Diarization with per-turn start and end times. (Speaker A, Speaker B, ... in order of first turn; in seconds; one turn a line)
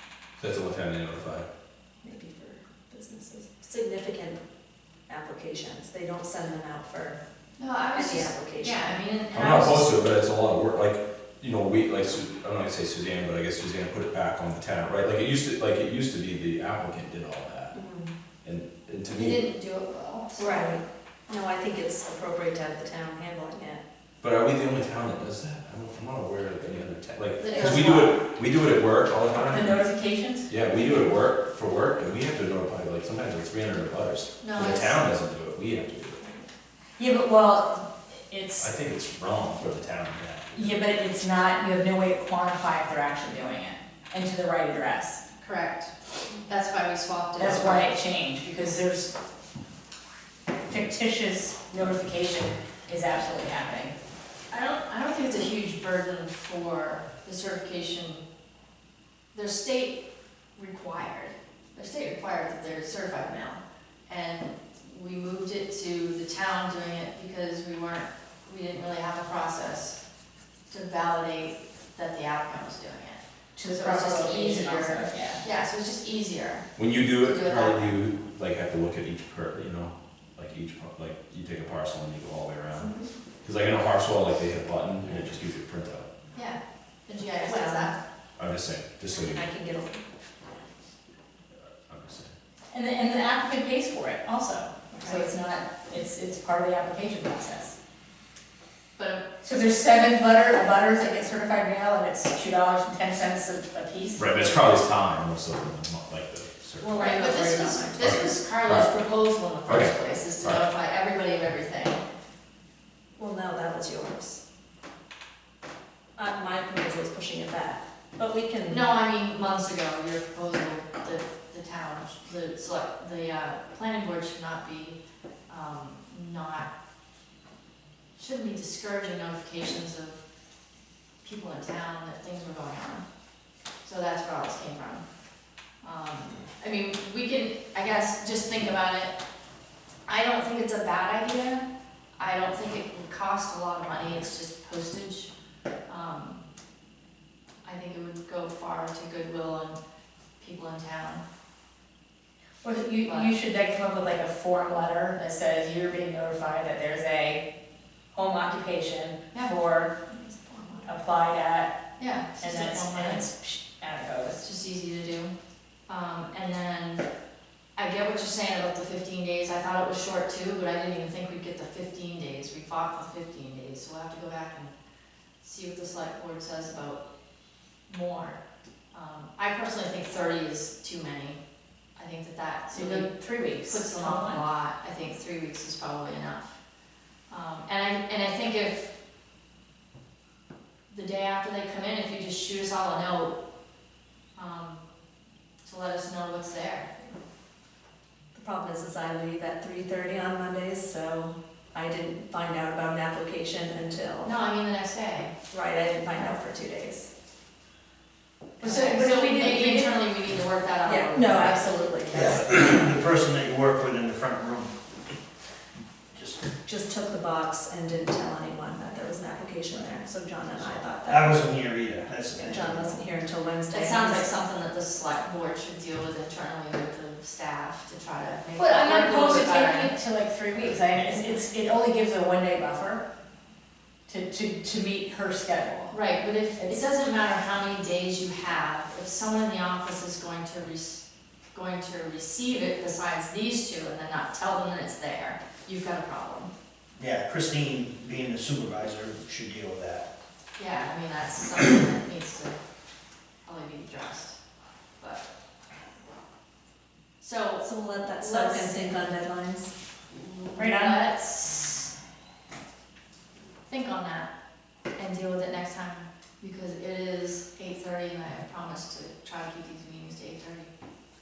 Speaker A: 0.4-1.5
Speaker B: 2.0-4.4
Speaker B: 5.1-7.2
Speaker C: 7.6-9.9
Speaker B: 7.9-9.0
Speaker A: 9.3-17.7
Speaker B: 17.7-18.1
Speaker A: 18.4-19.4
Speaker C: 19.1-20.8
Speaker B: 20.4-23.8
Speaker A: 24.2-29.8
Speaker C: 27.4-28.2
Speaker D: 27.6-27.9
Speaker D: 29.4-30.5
Speaker A: 30.5-36.2
Speaker C: 34.4-35.0
Speaker D: 37.0-38.7
Speaker A: 38.6-40.7
Speaker D: 40.5-45.2
Speaker C: 45.4-45.9
Speaker C: 46.4-47.9
Speaker D: 47.4-49.1
Speaker D: 50.6-54.0
Speaker C: 54.5-58.2
Speaker C: 59.3-60.0
Speaker C: 60.5-70.0
Speaker C: 70.7-76.7
Speaker D: 73.5-75.4
Speaker A: 76.8-82.9
Speaker C: 77.2-77.9
Speaker A: 83.4-86.1
Speaker C: 86.3-88.0
Speaker B: 87.4-87.9
Speaker A: 88.4-89.4
Speaker B: 89.1-90.0
Speaker A: 91.9-92.3
Speaker D: 92.7-97.8
Speaker B: 94.9-95.3
Speaker C: 99.0-99.3
Speaker D: 99.4-104.3
Speaker A: 104.2-107.0
Speaker B: 106.8-108.0
Speaker C: 107.0-112.0
Speaker A: 108.0-108.9
Speaker A: 109.7-110.6
Speaker B: 113.2-114.4
Speaker B: 116.2-118.8
Speaker C: 118.7-126.7
Speaker C: 128.2-130.2
Speaker C: 131.2-133.0
Speaker C: 133.8-135.0
Speaker C: 135.8-139.2
Speaker C: 140.1-141.7
Speaker C: 142.2-145.3
Speaker C: 145.9-146.4
Speaker C: 147.6-149.8
Speaker C: 150.4-151.2
Speaker D: 152.6-157.4
Speaker C: 153.0-153.3
Speaker D: 158.1-159.9
Speaker B: 160.1-160.9
Speaker D: 160.8-161.7
Speaker C: 162.0-163.3
Speaker D: 162.4-164.4
Speaker C: 164.4-165.3
Speaker C: 165.9-167.1
Speaker C: 167.8-174.7
Speaker C: 175.4-177.0
Speaker C: 177.9-178.4
Speaker C: 178.9-181.4
Speaker C: 181.9-183.1
Speaker D: 182.7-184.4
Speaker C: 183.7-186.6
Speaker C: 187.3-188.9
Speaker C: 190.9-193.3
Speaker C: 194.3-194.8
Speaker C: 195.6-196.9
Speaker B: 198.3-204.3
Speaker C: 204.2-205.3
Speaker B: 205.5-207.1
Speaker B: 208.6-209.0
Speaker C: 208.6-211.8
Speaker D: 208.7-209.9
Speaker B: 210.8-212.6
Speaker E: 212.1-214.8
Speaker E: 216.1-216.4
Speaker B: 216.6-221.4
Speaker E: 220.6-223.0
Speaker B: 222.3-224.3
Speaker C: 223.7-230.0
Speaker D: 228.6-233.0
Speaker D: 234.1-236.0
Speaker C: 235.9-246.5
Speaker E: 247.0-250.1
Speaker C: 250.6-252.6
Speaker C: 253.4-254.4
Speaker C: 255.0-255.3
Speaker C: 257.2-259.1
Speaker B: 257.6-259.7
Speaker C: 260.1-261.9
Speaker D: 260.6-261.0
Speaker C: 263.7-264.3
Speaker C: 264.9-270.7